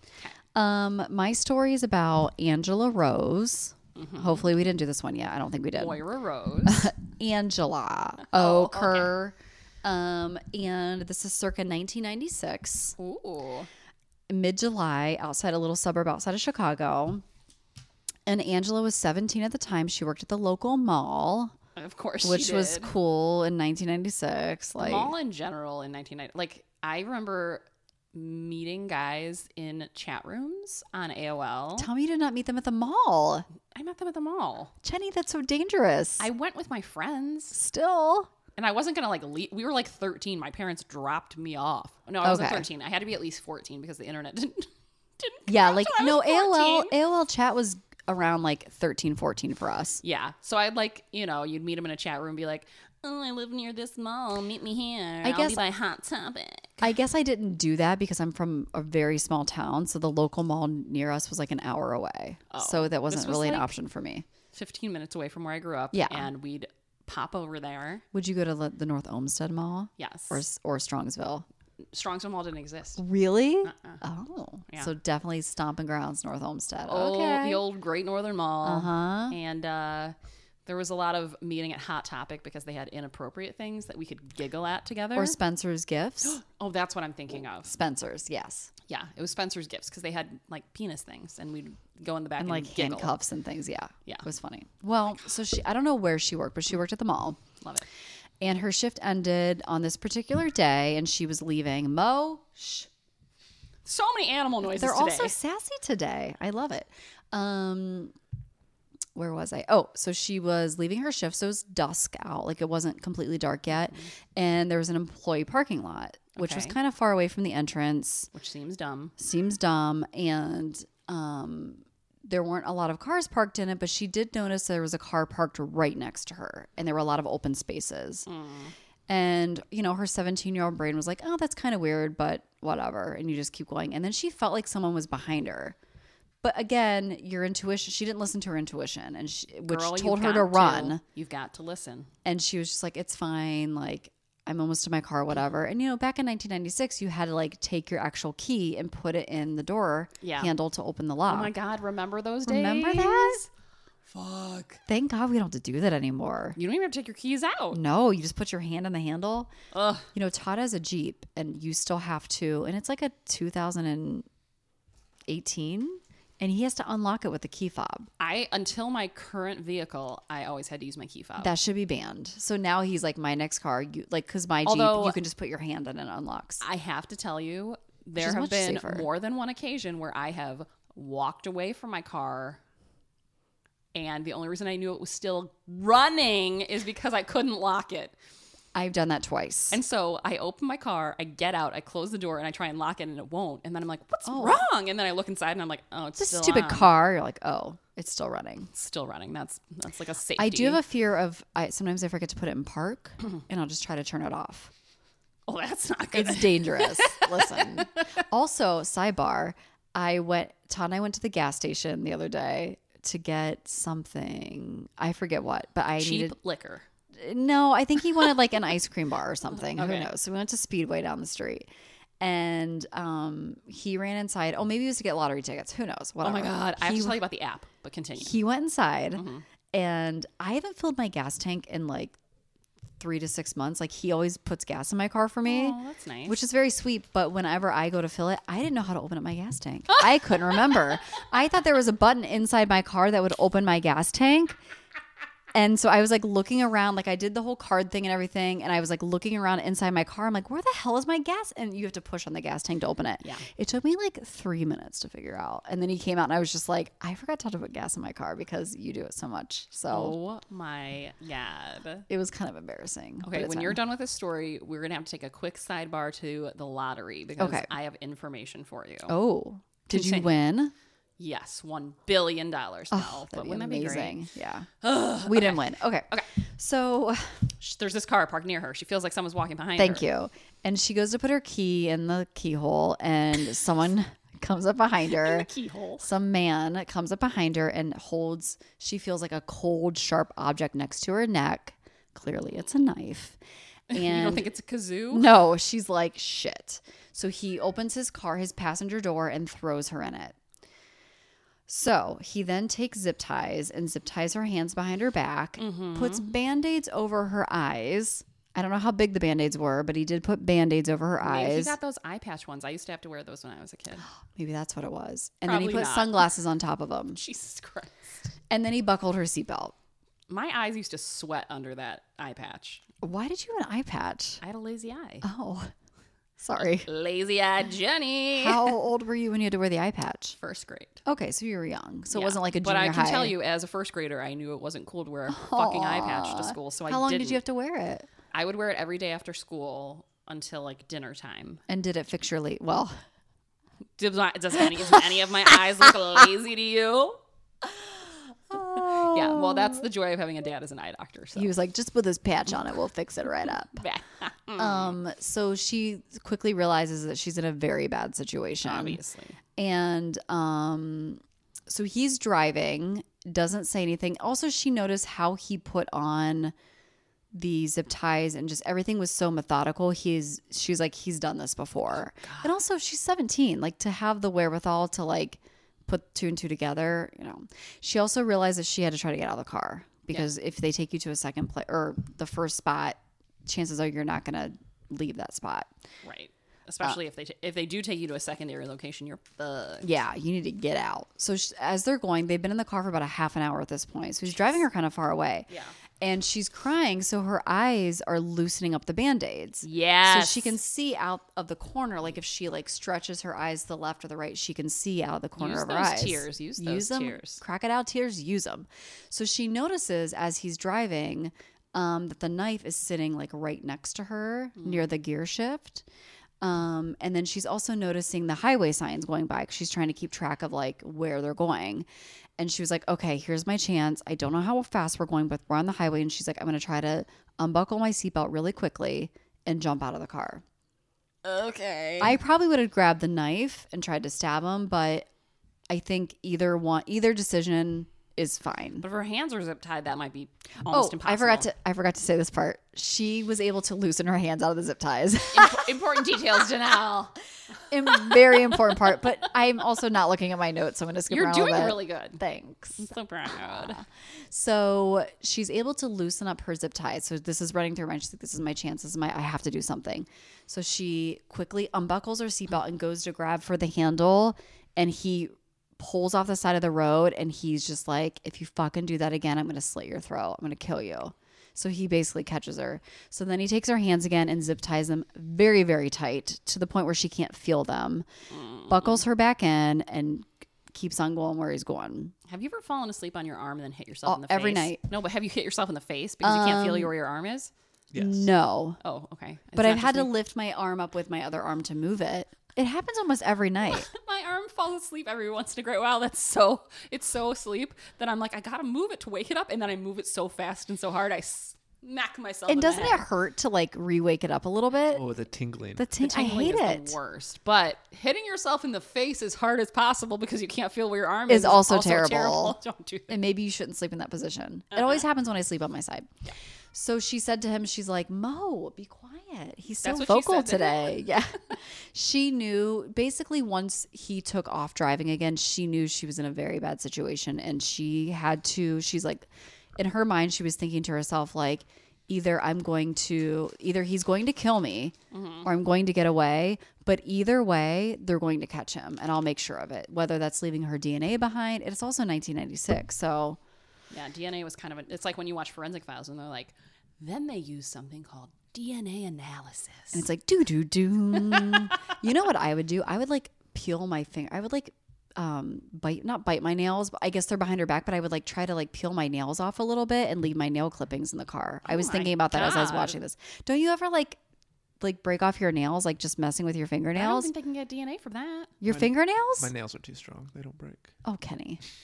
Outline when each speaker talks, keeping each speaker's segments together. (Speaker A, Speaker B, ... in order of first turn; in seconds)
Speaker A: 0.5-6.0, 6.7-12.9, 14.3-17.2, 18.2-21.5, 22.2-25.1, 31.8-33.5, 34.8-36.3, 37.5-38.3, 42.2-42.7, 45.5-50.0, 55.2-55.6, 56.8-64.2, 65.9-66.3, 68.1-71.5, 73.0-77.6, 78.6-79.3, 85.1-86.4, 87.7-88.7, 92.4-97.4, 98.4-102.9, 104.7-108.1, 109.1-118.3, 119.2-128.3, 129.1-135.8, 136.4-141.0, 142.2-151.5, 152.4-153.4, 154.9-156.6, 157.7-159.5, 160.1-164.2, 165.3-168.1, 171.4-176.6, 178.2-179.1, 188.7-189.8, 194.2-194.7, 196.2-198.7, 200.4-204.7, 206.1-216.3, 217.1-221.7, 222.2-227.2, 228.2-232.2, 233.0-244.6, 245.5-260.1, 262.1-263.8, 267.4-267.7, 269.1-270.7, 272.9-274.7, 275.2-277.4, 279.8-285.5, 286.0-293.4, 293.9-294.4, 295.1-300.4, 301.7-311.8, 314.4-317.2, 318.5-319.7, 323.0-324.4, 325.2-325.7, 326.4-326.9, 328.4-330.4, 331.0-333.4, 335.3-338.1, 341.7-342.9, 348.5-349.8, 351.4-353.8, 354.6-359.0, 359.6-366.5, 367.3-385.7, 389.8-415.8, 416.4-421.9, 422.4-430.4, 432.0-435.1, 435.7-438.8, 440.7-446.2, 447.7-452.9, 454.3-478.1, 478.7-482.1, 484.0-484.8, 486.2-486.9, 487.9-488.8, 489.5-493.9, 502.5-505.0, 505.8-506.9, 511.3-512.6, 513.1-516.1, 516.7-543.4, 549.9-564.2, 564.8-567.3, 568.6-569.5, 571.0-571.6
Speaker B: 4.0-4.5, 5.7-6.9, 8.3-9.1, 13.0-13.7, 21.8-22.9, 24.8-31.9, 33.7-34.7, 36.2-37.6, 38.5-46.9, 50.0-56.8, 62.5-63.7, 64.5-68.0, 70.0-70.4, 71.9-73.0, 73.6-74.0, 76.8-80.1, 80.7-85.3, 86.2-87.7, 88.9-93.2, 103.8-105.3, 113.8-114.1, 116.3-116.8, 118.3-119.1, 128.2-128.7, 139.7-142.1, 150.2-150.5, 151.3-153.5, 154.1-154.8, 156.6-157.8, 159.7-160.1, 168.2-171.5, 174.6-175.2, 176.6-182.6, 183.9-188.1, 189.7-196.9, 198.7-200.8, 205.5-208.1, 216.0-216.8, 219.7-220.1, 226.2-228.4, 229.1-229.4, 235.4-236.4, 253.2-253.5, 259.9-262.1, 263.2-269.1, 269.9-270.3, 271.2-274.2, 274.8-276.3, 277.6-280.1, 285.1-286.1, 293.9-295.3, 305.6-306.3, 311.2-314.1, 315.4-316.2, 317.1-318.3, 320.3-322.8, 324.4-325.2, 326.6-328.7, 330.4-331.0, 332.1-337.4, 338.3-341.6, 344.0-347.2, 348.7-351.5, 353.8-355.0, 358.6-359.4, 372.2-372.6, 386.0-389.9, 395.5-395.7, 399.6-400.6, 405.4-407.4, 414.6-414.8, 431.2-432.2, 438.8-441.5, 445.3-447.2, 447.9-448.5, 451.1-452.2, 452.8-453.8, 478.3-479.0, 482.3-487.5, 488.8-490.1, 493.6-503.0, 506.0-513.2, 514.7-515.0, 519.8-521.1, 535.1-535.5, 543.9-550.0, 551.3-551.7, 561.6-563.0, 566.9-568.5
Speaker C: 487.9-488.3, 504.9-505.9, 568.7-570.9